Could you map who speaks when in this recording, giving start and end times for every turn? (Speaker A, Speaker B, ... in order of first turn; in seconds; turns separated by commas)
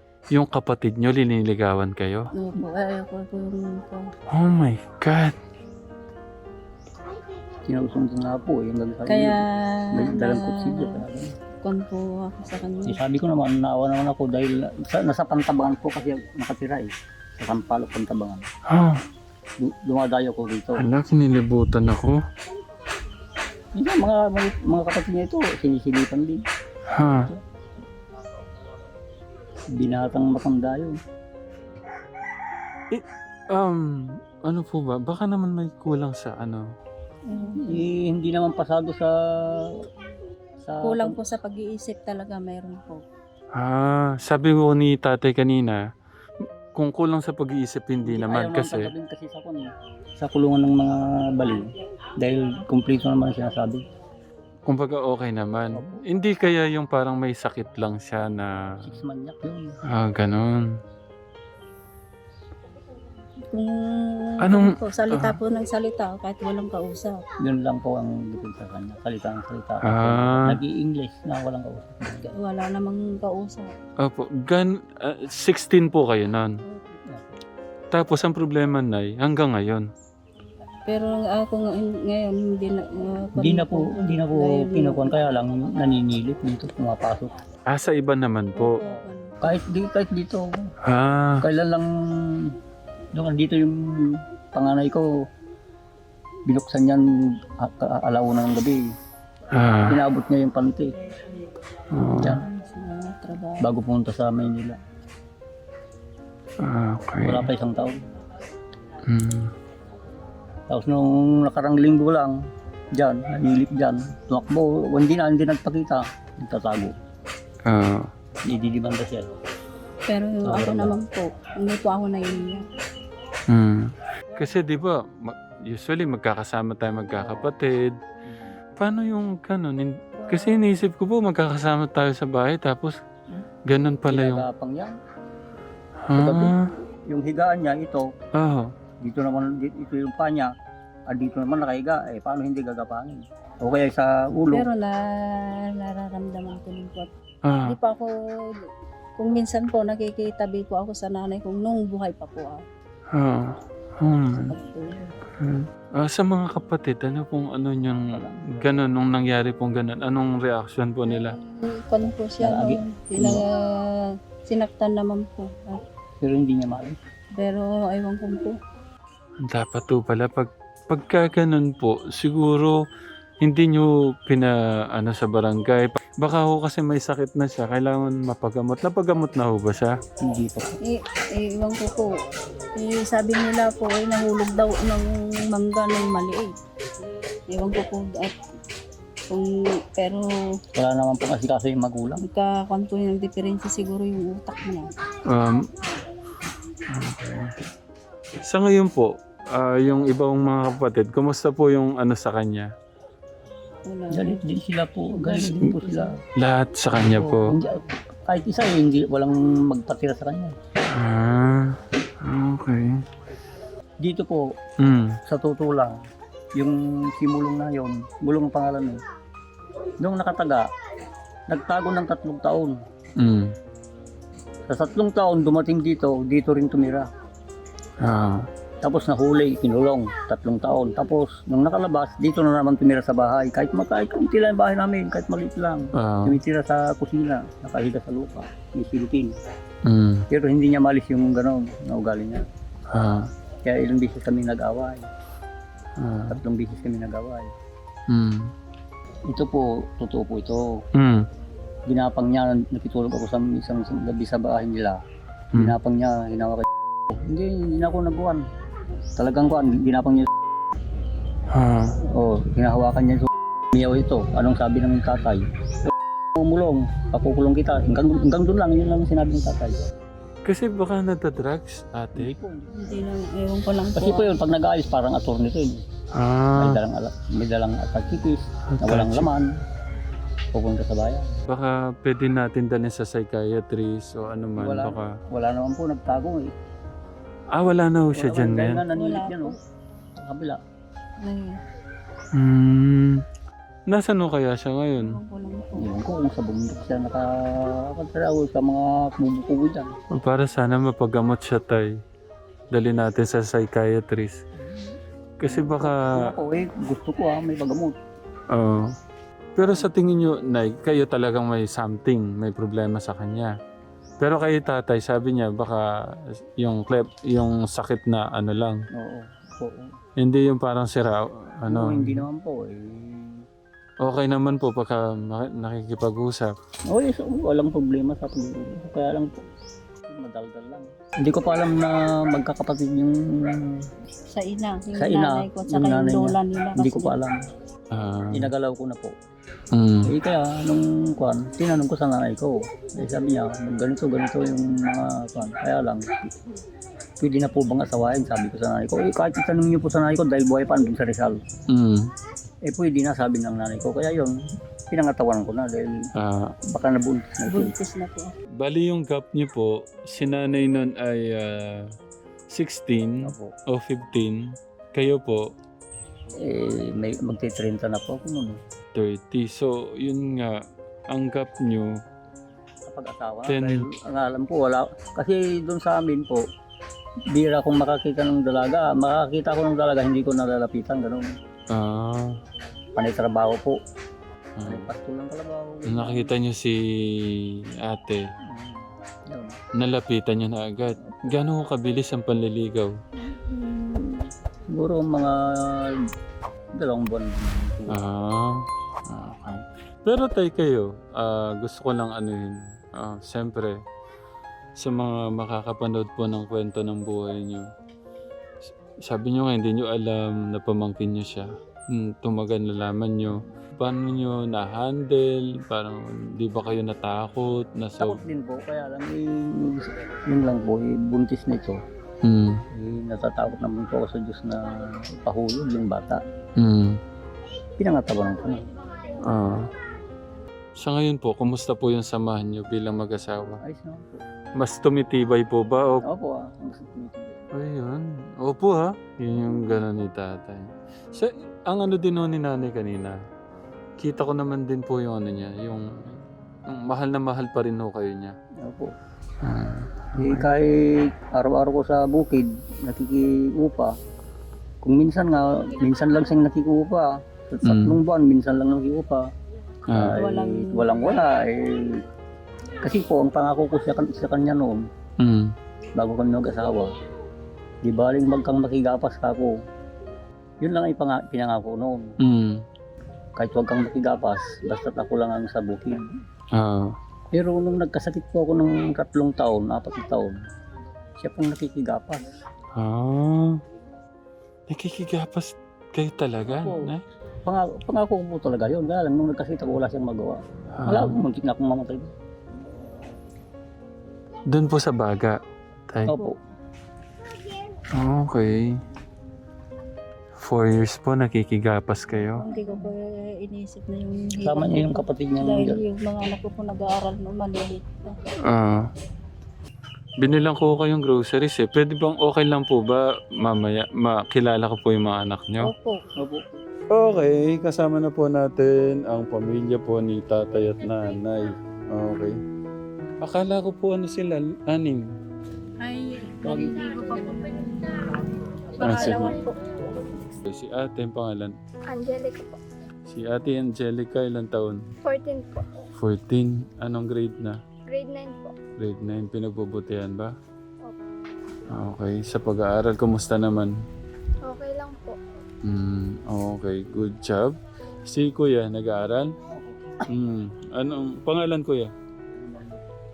Speaker A: 0.3-2.3, Speaker B: 2.4-4.1, Speaker A: 4.3-5.3, Speaker C: 7.7-9.4, Speaker B: 9.1-11.0, Speaker C: 9.9-11.3, Speaker B: 11.6-13.0, Speaker C: 12.9-18.4, Speaker A: 18.7-19.0, Speaker C: 19.6-20.8, Speaker A: 20.8-22.2, Speaker C: 23.7-26.4, Speaker A: 26.9-27.3, Speaker C: 27.0-27.4, Speaker C: 29.7-31.0, Speaker A: 32.9-36.6, Speaker B: 37.3-37.6, Speaker C: 37.6-39.7, Speaker C: 40.6-41.2, Speaker B: 40.8-43.0, Speaker A: 43.5-45.8, Speaker A: 46.4-48.9, Speaker C: 48.0-49.7, Speaker C: 50.2-53.8, Speaker A: 54.6-58.7, Speaker C: 55.7-56.0, Speaker C: 58.8-59.8, Speaker A: 59.9-60.7, Speaker B: 63.5-67.2, Speaker A: 64.4-65.4, Speaker C: 67.4-72.3, Speaker A: 69.8-70.6, Speaker B: 72.2-73.7, Speaker A: 74.0-76.5, Speaker B: 76.7-77.0, Speaker C: 77.1-77.4, Speaker A: 77.9-79.8, Speaker B: 80.9-85.0, Speaker C: 83.3-87.3, Speaker A: 87.7-88.8, Speaker B: 88.5-89.5, Speaker C: 89.4-90.7, Speaker A: 90.8-91.5, Speaker C: 91.4-92.5, Speaker C: 93.1-95.1, Speaker C: 96.5-98.8, Speaker A: 99.5-100.0, Speaker C: 99.9-100.9, Speaker A: 101.9-102.4, Speaker C: 102.2-102.4, Speaker B: 102.4-103.6, Speaker C: 103.6-104.8, Speaker A: 106.6-107.5, Speaker C: 107.2-108.0, Speaker A: 109.1-109.5, Speaker C: 110.7-112.3, Speaker C: 112.9-116.9, Speaker A: 117.6-118.1, Speaker C: 118.4-119.3, Speaker B: 120.1-122.6, Speaker C: 120.4-120.9, Speaker A: 123.5-128.0, Speaker B: 124.3-124.5, Speaker C: 127.1-127.5, Speaker C: 128.2-128.6, Speaker A: 128.8-133.0, Speaker B: 130.2-130.5, Speaker A: 133.7-134.4, Speaker C: 134.1-135.0, Speaker A: 136.1-136.6, Speaker C: 136.1-138.1, Speaker A: 138.3-138.7, Speaker C: 139.0-140.5, Speaker C: 141.1-144.7, Speaker B: 144.5-147.1, Speaker A: 147.4-147.8, Speaker B: 147.6-148.6, Speaker B: 149.2-152.6, Speaker A: 153.1-154.5, Speaker B: 154.5-155.1, Speaker A: 155.4-161.4, Speaker C: 158.1-158.8, Speaker B: 161.1-163.9, Speaker C: 162.4-163.4, Speaker B: 164.5-165.8, Speaker C: 166.2-167.0, Speaker B: 167.4-168.5, Speaker A: 169.4-172.8, Speaker A: 173.4-179.9, Speaker C: 180.2-180.8, Speaker B: 180.8-182.1, Speaker B: 182.8-186.5, Speaker B: 187.5-188.3, Speaker B: 189.3-190.3, Speaker C: 190.8-192.2, Speaker B: 192.2-194.9, Speaker A: 195.3-195.7, Speaker A: 196.9-197.7, Speaker A: 198.4-202.7, Speaker B: 203.9-204.4, Speaker C: 204.1-206.1, Speaker B: 205.1-206.1, Speaker A: 206.4-207.6, Speaker C: 206.9-210.5, Speaker A: 210.9-213.0, Speaker C: 214.0-214.5, Speaker A: 214.8-215.2, Speaker C: 215.3-216.0, Speaker C: 216.6-219.0, Speaker C: 220.0-220.7, Speaker C: 221.5-222.8, Speaker A: 223.2-223.5, Speaker C: 224.7-227.1, Speaker A: 228.0-228.5, Speaker C: 228.8-239.3, Speaker A: 236.0-236.4, Speaker A: 239.8-240.2, Speaker C: 240.3-242.4, Speaker A: 242.9-243.3, Speaker C: 243.6-245.1, Speaker A: 246.0-246.4, Speaker C: 246.3-247.5, Speaker A: 248.1-248.5, Speaker C: 249.3-250.7, Speaker A: 251.0-251.3, Speaker C: 251.9-255.0, Speaker C: 255.5-258.4, Speaker C: 259.2-260.3, Speaker A: 261.5-261.9, Speaker C: 262.1-269.8, Speaker A: 270.4-272.3, Speaker C: 272.1-272.8, Speaker B: 272.7-274.4, Speaker C: 273.9-275.8, Speaker A: 276.1-276.8, Speaker C: 276.6-279.5, Speaker A: 278.7-279.3, Speaker C: 280.5-281.3, Speaker A: 281.5-285.1, Speaker C: 284.6-286.5, Speaker A: 287.5-288.8, Speaker C: 288.1-289.5, Speaker B: 288.9-289.5, Speaker C: 290.2-290.6, Speaker B: 291.2-291.6, Speaker A: 292.3-293.2, Speaker A: 293.9-295.2, Speaker B: 295.0-295.9, Speaker C: 295.8-299.9, Speaker A: 300.1-301.9, Speaker A: 302.7-304.4, Speaker C: 304.6-307.9, Speaker A: 305.4-306.1, Speaker A: 308.5-308.9, Speaker A: 309.6-313.5, Speaker C: 309.6-309.9, Speaker A: 314.2-318.8, Speaker C: 318.9-319.9, Speaker A: 320.2-322.2, Speaker C: 321.7-323.4, Speaker A: 324.0-326.5, Speaker C: 326.9-329.4, Speaker C: 330.1-333.9, Speaker B: 334.3-337.1, Speaker C: 334.9-337.4, Speaker A: 337.9-338.5, Speaker C: 338.3-339.1, Speaker A: 339.7-340.1, Speaker C: 340.1-346.1, Speaker C: 347.2-351.4, Speaker A: 351.7-352.1, Speaker C: 352.7-354.4, Speaker C: 354.9-356.1, Speaker A: 356.2-356.5, Speaker C: 356.7-357.7, Speaker B: 357.5-358.3, Speaker A: 358.6-361.9, Speaker A: 362.5-364.4, Speaker C: 363.2-363.5, Speaker A: 364.9-365.4, Speaker C: 366.3-368.6, Speaker A: 368.9-371.9, Speaker C: 372.9-376.4, Speaker A: 373.5-373.8, Speaker C: 377.3-381.2, Speaker A: 381.7-382.3, Speaker C: 382.9-383.8, Speaker A: 384.6-384.9, Speaker C: 384.6-386.3, Speaker A: 385.9-388.2, Speaker C: 388.5-389.6, Speaker A: 389.8-392.9, Speaker C: 393.2-395.9, Speaker C: 396.8-398.0, Speaker A: 397.9-403.8, Speaker A: 404.8-407.7, Speaker A: 409.1-418.2, Speaker C: 418.0-421.8, Speaker A: 422.2-422.6, Speaker C: 422.7-426.2, Speaker A: 426.6-427.0, Speaker C: 427.8-428.7, Speaker A: 429.2-429.7, Speaker A: 430.8-433.6, Speaker C: 433.6-434.2, Speaker A: 434.6-436.0, Speaker C: 436.0-437.4, Speaker A: 437.5-443.2, Speaker A: 444.0-448.3, Speaker C: 448.6-448.9, Speaker A: 449.4-450.5, Speaker C: 450.2-453.9, Speaker C: 454.8-459.2, Speaker A: 457.6-458.0, Speaker A: 459.9-460.2, Speaker C: 459.9-462.0, Speaker B: 460.2-461.2, Speaker C: 462.8-464.9, Speaker A: 465.2-465.5, Speaker C: 465.9-466.9, Speaker C: 467.8-469.5, Speaker C: 470.6-472.1, Speaker A: 472.2-472.6, Speaker C: 473.4-476.1, Speaker A: 476.5-476.9, Speaker C: 477.3-480.3, Speaker C: 481.2-482.3, Speaker A: 482.8-483.6, Speaker A: 484.7-487.0, Speaker C: 486.5-486.9, Speaker C: 487.4-492.1, Speaker A: 490.8-491.2, Speaker A: 494.5-495.4, Speaker A: 495.9-496.1, Speaker C: 496.1-496.3, Speaker A: 497.9-498.7, Speaker A: 500.4-502.4, Speaker B: 502.4-508.1, Speaker C: 504.4-505.8, Speaker A: 508.5-508.9, Speaker A: 510.2-515.7, Speaker B: 515.6-516.0, Speaker C: 516.2-516.4, Speaker A: 516.9-522.3, Speaker A: 523.2-525.0, Speaker B: 525.8-528.0, Speaker C: 526.5-526.7, Speaker B: 528.8-529.5, Speaker A: 528.8-529.4, Speaker A: 530.5-531.5, Speaker D: 531.9-532.6, Speaker A: 533.1-534.8, Speaker D: 535.0-535.7, Speaker A: 536.0-537.6, Speaker D: 537.9-538.5, Speaker A: 538.8-540.3, Speaker A: 541.7-543.7, Speaker D: 544.4-545.2, Speaker A: 545.6-547.5, Speaker A: 548.1-549.3, Speaker C: 549.5-550.0, Speaker A: 550.1-551.9, Speaker C: 552.4-552.8